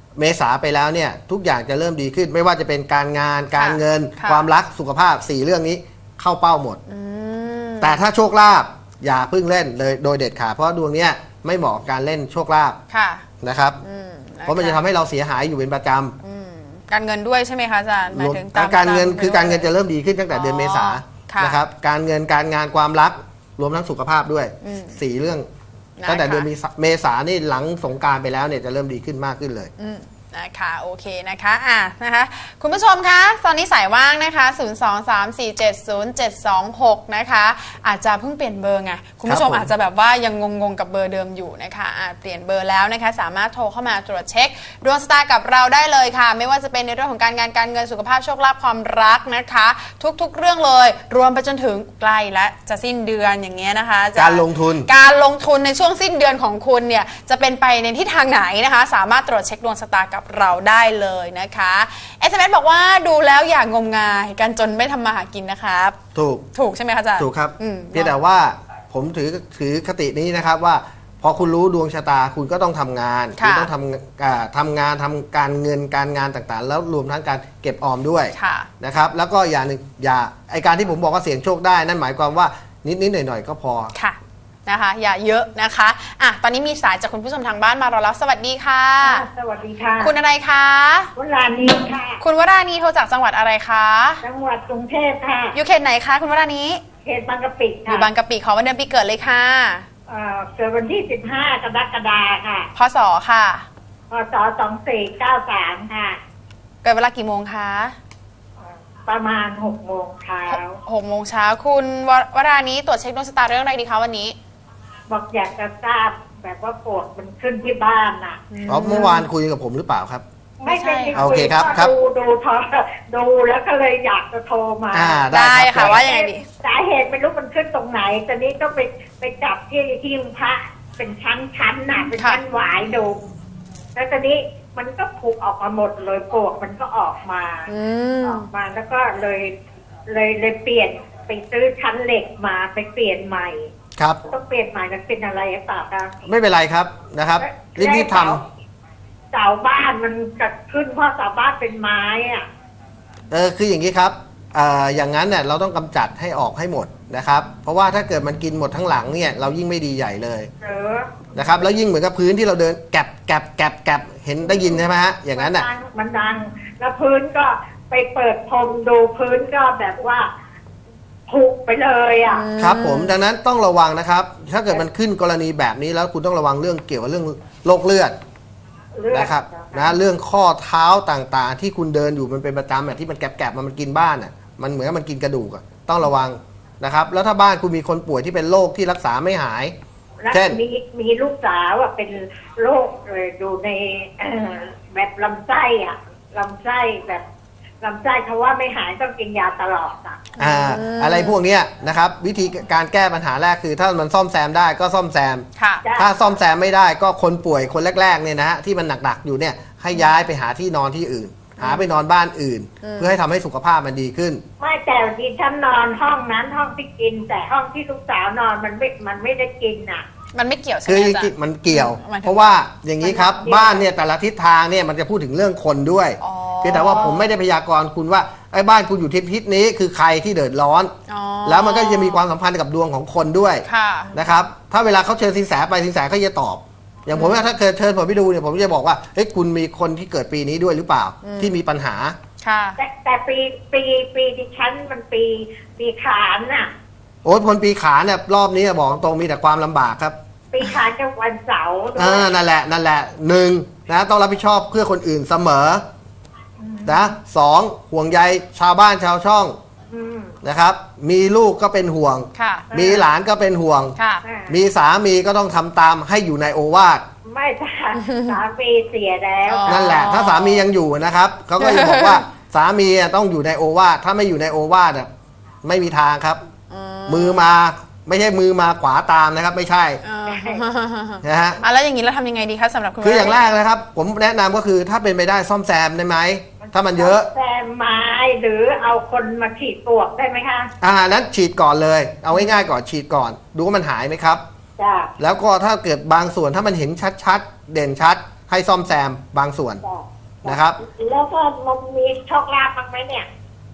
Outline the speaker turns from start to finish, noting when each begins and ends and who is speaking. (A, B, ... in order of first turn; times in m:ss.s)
0:00.2-0:06.8 A
0:03.6-0:04.5 B
0:06.9-0:08.0 B
0:07.8-0:12.8 A
0:12.9-0:13.2 B
0:13.4-0:13.8 A
0:13.8-0:14.8 B
0:14.5-0:16.2 A
0:16.2-0:19.7 B
0:18.1-0:25.5 A
0:20.3-0:21.6 B
0:24.6-0:25.0 B
0:26.0-0:26.5 B
0:26.1-0:29.7 A
0:29.8-1:06.0 B
0:39.2-0:39.7 A
0:54.2-0:54.9 A
1:06.2-1:06.5 A
1:06.5-1:08.2 B
1:07.2-1:23.9 A
1:13.4-1:13.7 B
1:18.3-1:18.7 B
1:24.0-1:29.2 B
1:29.0-1:30.2 C
1:30.0-1:31.1 B
1:31.2-1:32.2 C
1:32.2-1:34.2 B
1:34.2-1:35.6 C
1:35.5-1:36.8 B
1:37.0-1:38.1 C
1:37.9-1:39.9 B
1:40.1-1:42.7 C
1:42.8-1:43.7 B
1:44.1-1:46.2 C
1:46.8-1:48.0 B
1:48.6-1:50.8 C
1:50.5-1:54.4 B
1:55.1-1:58.4 C
1:58.5-1:59.3 B
1:58.7-2:00.2 A
2:00.6-2:05.2 C
2:00.7-2:01.6 B
2:01.1-2:01.9 A
2:04.9-2:06.0 A
2:05.3-2:06.4 B
2:05.9-2:13.2 C
2:14.0-2:17.7 C
2:17.7-2:18.4 B
2:18.2-2:19.5 C
2:20.1-2:23.7 C
2:24.3-2:26.1 C
2:26.2-2:28.4 A
2:27.4-2:28.4 C
2:29.3-2:32.5 C
2:33.3-2:40.5 A
2:40.6-2:41.3 C
2:41.3-2:45.7 A
2:44.4-2:50.3 C
2:51.3-2:52.4 C
2:52.3-2:53.2 B
2:52.6-2:58.2 A
2:59.0-3:00.0 C
2:59.1-3:09.7 A
3:10.2-3:17.2 C
3:10.3-3:10.6 A
3:17.8-3:20.4 C
3:20.4-3:21.4 B
3:20.4-3:34.4 A
3:25.6-3:25.8 B
3:25.8-3:26.2 C
3:31.6-3:31.9 B
3:32.8-3:33.2 B
3:34.6-3:40.0 C
3:40.3-3:43.4 B
3:40.9-3:50.9 A
3:43.4-3:43.8 C
3:46.2-3:47.3 B
3:51.1-3:52.2 B
3:51.4-4:02.2 A
3:53.7-3:54.1 B
3:57.1-3:57.5 B
4:01.2-4:01.6 B
4:02.4-4:02.8 B
4:02.8-4:06.7 C
4:07.2-4:10.2 A
4:10.5-4:12.3 C
4:12.0-4:15.8 A
4:16.6-4:17.1 C
4:16.8-4:19.6 A
4:19.9-4:20.4 C
4:20.4-4:24.0 A
4:22.4-4:22.7 B
4:22.7-4:23.0 C
4:24.0-4:24.2 B
4:24.2-4:24.6 C
4:24.5-4:27.0 A
4:27.3-4:29.9 C
4:28.0-4:28.4 B
4:29.5-4:30.7 B
4:29.7-4:35.1 A
4:31.6-4:32.2 B
4:35.6-4:36.4 A
4:36.7-4:37.5 B
4:37.1-4:40.0 A
4:40.0-4:43.4 B
4:40.3-4:40.6 C
4:41.2-4:41.6 A
4:43.0-4:47.3 A
4:46.6-4:50.7 C
4:50.8-4:54.4 A
4:54.8-4:55.1 C
4:55.2-4:59.8 A
4:59.8-5:03.3 C
5:00.4-5:00.8 A